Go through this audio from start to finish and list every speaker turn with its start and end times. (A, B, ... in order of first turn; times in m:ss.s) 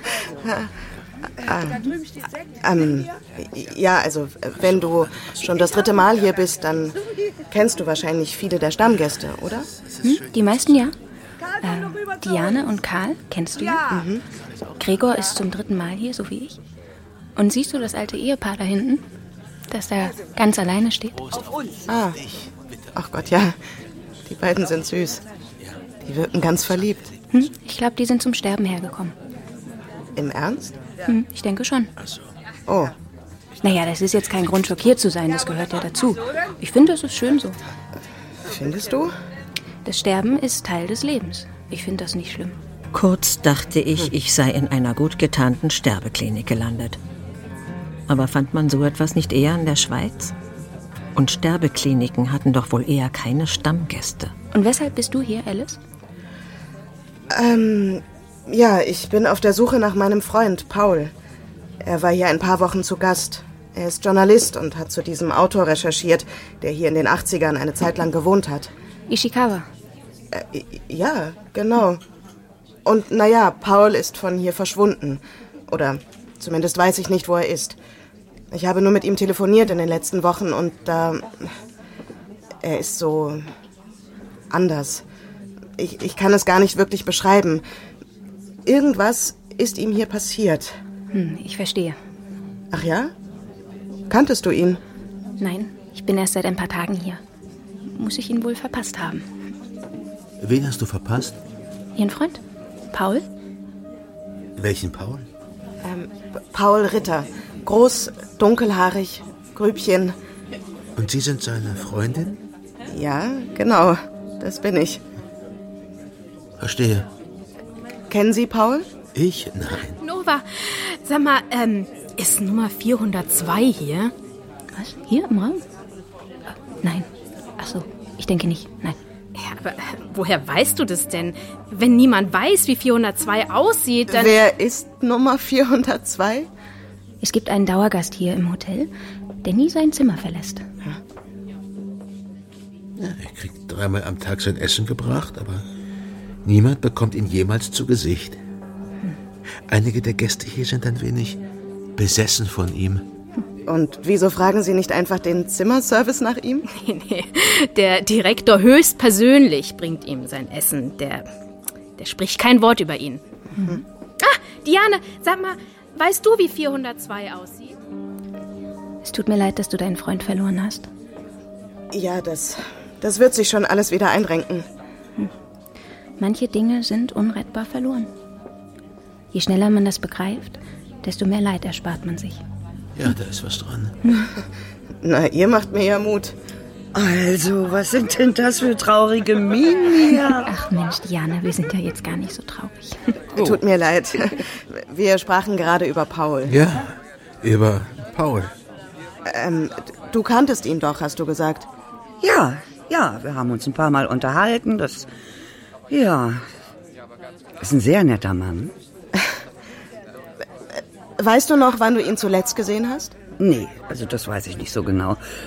0:00.4-0:00.7 A
0:01.4-0:01.9 A
0:02.6-0:07.0 A
0:07.5-0:09.7 A
0:10.0-0:11.0 B
0:11.6-0:13.9 B
0:13.9-0:14.2 A
0:14.8-0:16.6 B
0:17.4-0:19.0 B
0:19.7-0:21.3 B
0:21.9-0:22.2 A
0:23.0-0:23.6 A
0:24.3-0:25.2 A
0:26.0-0:27.0 A
0:27.3-0:29.2 B
0:30.2-0:30.8 A
0:31.0-0:31.9 B
0:32.0-0:32.3 C
0:32.7-0:32.9 A
0:33.6-0:37.6 B
0:38.4-0:39.1 A
0:39.8-0:42.6 B
0:42.9-0:47.0 D
0:48.1-0:50.3 D
0:51.2-0:54.4 D
0:54.5-0:55.8 B
0:57.3-1:01.1 A
1:01.8-1:08.7 A
1:09.1-1:09.7 B
1:10.3-1:12.0 A
1:12.8-1:17.8 A
1:18.5-1:21.5 A
1:22.6-1:23.5 A
1:24.5-1:25.0 A
1:25.8-1:27.6 A
1:28.6-1:30.8 A
1:31.1-1:32.0 B
1:32.7-1:33.1 A
1:34.1-1:34.8 A
1:35.4-1:37.2 B
1:37.9-1:39.3 B
1:40.4-1:41.4 C
1:42.0-1:42.4 B
1:42.9-1:43.3 B
1:44.6-1:45.3 C
1:45.8-1:50.2 A
1:51.0-1:52.4 C
1:52.9-1:55.0 A
1:56.6-1:57.1 C
1:58.1-1:58.9 A
1:59.1-2:00.0 C
2:00.0-2:04.1 E
2:04.8-2:05.6 B
2:06.8-2:09.0 B
2:09.3-2:14.4 E
2:14.1-2:16.5 A
2:17.2-2:18.9 B
2:19.4-2:20.6 B
2:23.0-2:25.6 C
2:26.4-2:28.4 C
2:29.7-2:31.4 C
2:32.0-2:33.0 C
2:33.7-2:36.7 A
2:36.7-2:41.3 E
2:42.0-2:43.3 E
2:44.2-2:47.8 E
2:49.0-2:50.9 B
2:51.9-2:54.7 A
2:56.2-2:58.1 B
2:59.3-3:02.4 B
3:03.0-3:04.0 C
3:04.0-3:04.3 B
3:05.0-3:06.4 A
3:06.9-3:10.5 F
3:10.4-3:13.2 B
3:13.3-3:16.6 A
3:16.5-3:18.5 C
3:19.3-3:21.7 A
3:22.2-3:25.1 F
3:25.9-3:26.4 F
3:27.6-3:28.7 F
3:31.2-3:33.2 A
3:33.4-3:35.2 F